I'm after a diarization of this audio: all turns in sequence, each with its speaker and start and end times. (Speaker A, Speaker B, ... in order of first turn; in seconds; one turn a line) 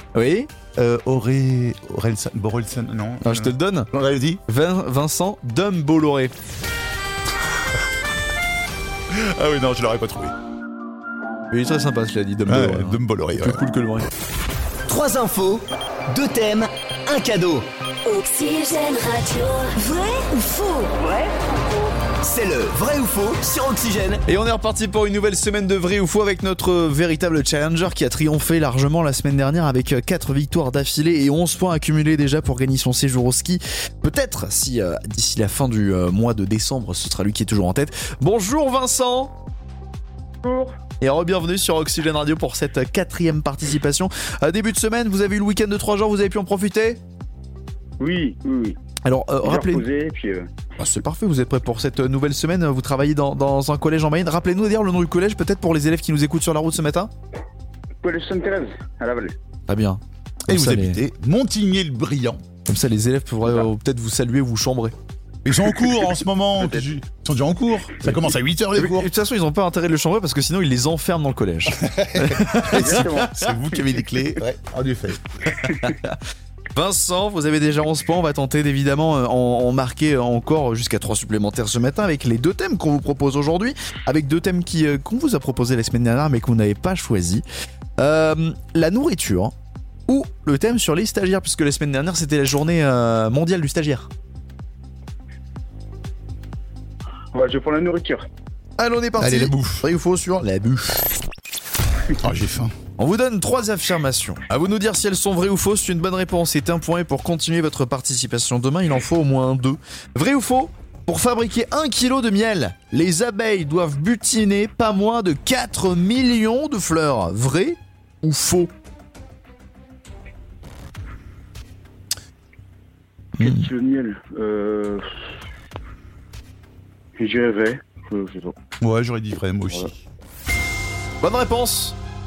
Speaker A: 0.1-0.5
Speaker B: 0.8-4.4
Speaker A: 3.2-3.9
Speaker A: 4.5-6.3
Speaker B: 9.1-10.3
Speaker A: 11.5-14.1
Speaker B: 12.5-13.6
Speaker C: 14.9-17.7
Speaker D: 18.1-21.0
Speaker C: 22.2-24.2
Speaker A: 24.3-39.3
Speaker E: 40.4-40.8
Speaker A: 41.0-47.0
Speaker E: 48.0-48.8
Speaker A: 49.0-49.9
Speaker E: 49.4-50.5
Speaker A: 50.8-57.1
Speaker E: 58.0-59.4
Speaker A: 59.7-61.0
Speaker B: 60.5-62.4
Speaker A: 62.7-65.0
Speaker B: 65.5-69.1
Speaker A: 68.8-73.2
Speaker B: 71.7-75.2
Speaker E: 72.6-73.4
Speaker A: 75.7-76.2
Speaker A: 76.8-87.4
Speaker A: 88.0-89.5
Speaker A: 90.1-94.1
Speaker E: 97.3-98.3
Speaker A: 98.8-101.1
Speaker B: 99.2-99.8
Speaker B: 102.2-102.7
Speaker A: 103.0-118.7
Speaker A: 123.4-123.7
Speaker E: 123.4-125.1
Speaker E: 127.2-128.6
Speaker B: 128.8-130.0
Speaker A: 131.2-132.0